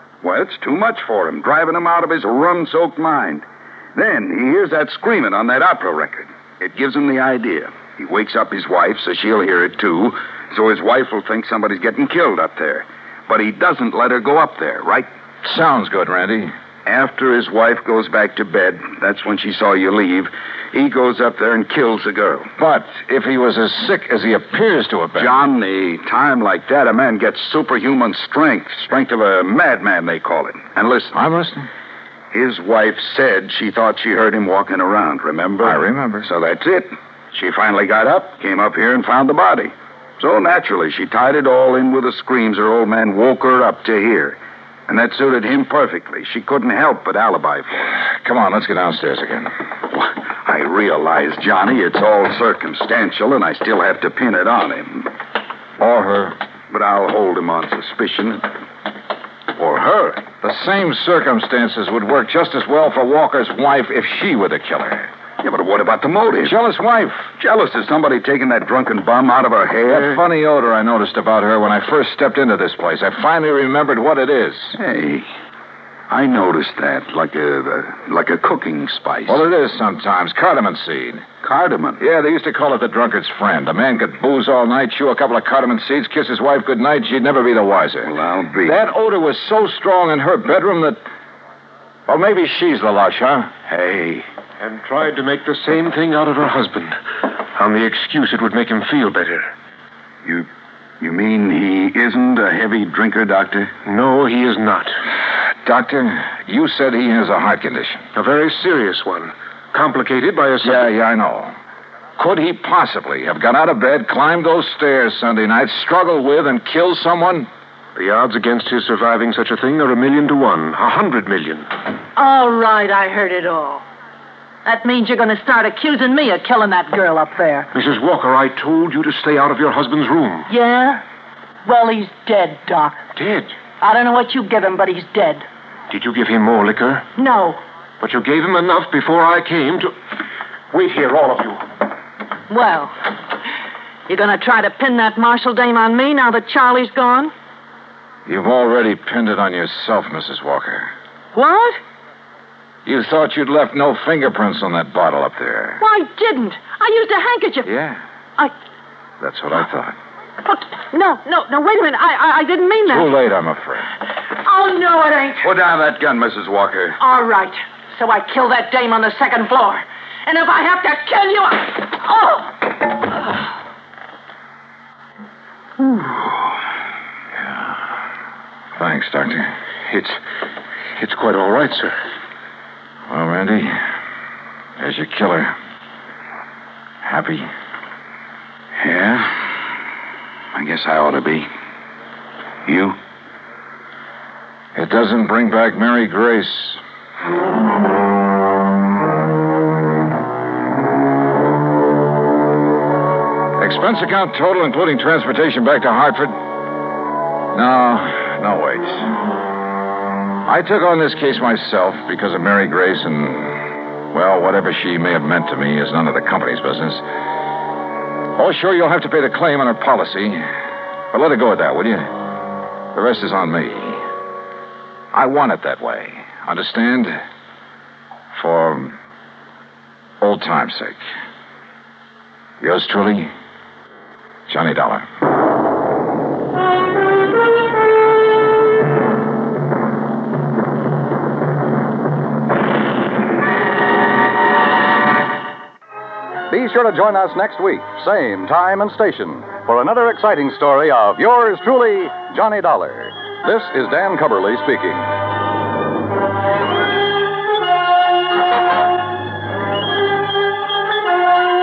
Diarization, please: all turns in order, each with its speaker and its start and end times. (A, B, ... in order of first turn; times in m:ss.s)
0:00.2-0:15.1 A
0:15.4-0:16.5 B
0:16.8-0:22.5 A
0:22.6-0:25.4 B
0:25.2-0:31.2 A
0:31.1-0:31.7 B
0:32.3-0:48.0 A
0:35.6-0:36.3 B
0:48.0-0:49.5 B
0:49.9-0:55.1 A
0:55.8-0:56.4 B
0:56.7-0:58.5 A
0:59.6-1:00.2 A
1:00.3-1:05.1 B
1:05.4-1:06.5 A
1:06.4-1:07.3 B
1:07.4-1:10.2 A
1:09.9-1:14.7 B
1:14.8-1:15.3 A
1:16.1-1:19.4 A
1:19.3-1:21.2 B
1:21.4-1:22.0 A
1:22.0-1:28.1 B
1:28.0-1:28.8 A
1:28.6-1:31.0 B
1:32.1-1:33.5 B
1:33.7-1:34.3 A
1:34.6-1:37.0 C
1:37.5-1:39.5 C
1:41.0-1:43.7 A
1:43.8-1:45.0 C
1:45.6-1:48.1 B
1:48.1-1:50.9 C
1:50.6-1:51.5 B
1:52.2-1:57.5 B
1:58.0-2:01.7 C
2:02.1-2:03.8 D
2:04.6-2:07.7 D
2:07.7-2:10.5 C
2:10.5-2:11.0 D
2:11.6-2:13.0 D
2:13.2-2:13.5 C
2:13.8-2:15.4 D
2:15.9-2:17.1 C
2:17.2-2:17.6 D
2:18.0-2:19.9 C
2:20.7-2:21.6 C
2:22.5-2:22.9 D
2:24.1-2:27.3 D
2:28.2-2:30.9 B
2:31.3-2:31.8 D
2:32.8-2:35.8 B
2:35.8-2:37.7 D
2:37.6-2:38.0 B
2:39.2-2:40.0 B
2:40.4-2:43.1 D
2:42.8-2:43.9 B
2:44.3-2:45.5 D
2:45.4-2:47.0 A
2:47.0-2:53.0 D
2:57.4-2:57.8 B
2:58.8-2:59.5 B
2:59.9-3:00.2 C
3:01.0-3:02.0 C
3:03.1-3:03.9 B
3:04.8-3:05.5 B
3:07.0-3:07.5 B
3:08.8-3:09.5 A
3:10.5-3:11.5 A
3:12.6-3:13.0 A
3:14.7-3:16.8 B
3:23.6-3:26.4 B
3:27.5-3:29.2 B
3:30.4-3:37.0 B
3:38.4-3:40.4 B
3:41.1-3:42.2 B
3:42.9-3:44.0 B
3:45.1-3:47.2 B
3:48.3-3:49.0 B
3:50.2-3:51.0 B
3:52.6-3:53.3 B
3:54.5-3:55.0 B
4:06.5-4:15.1 E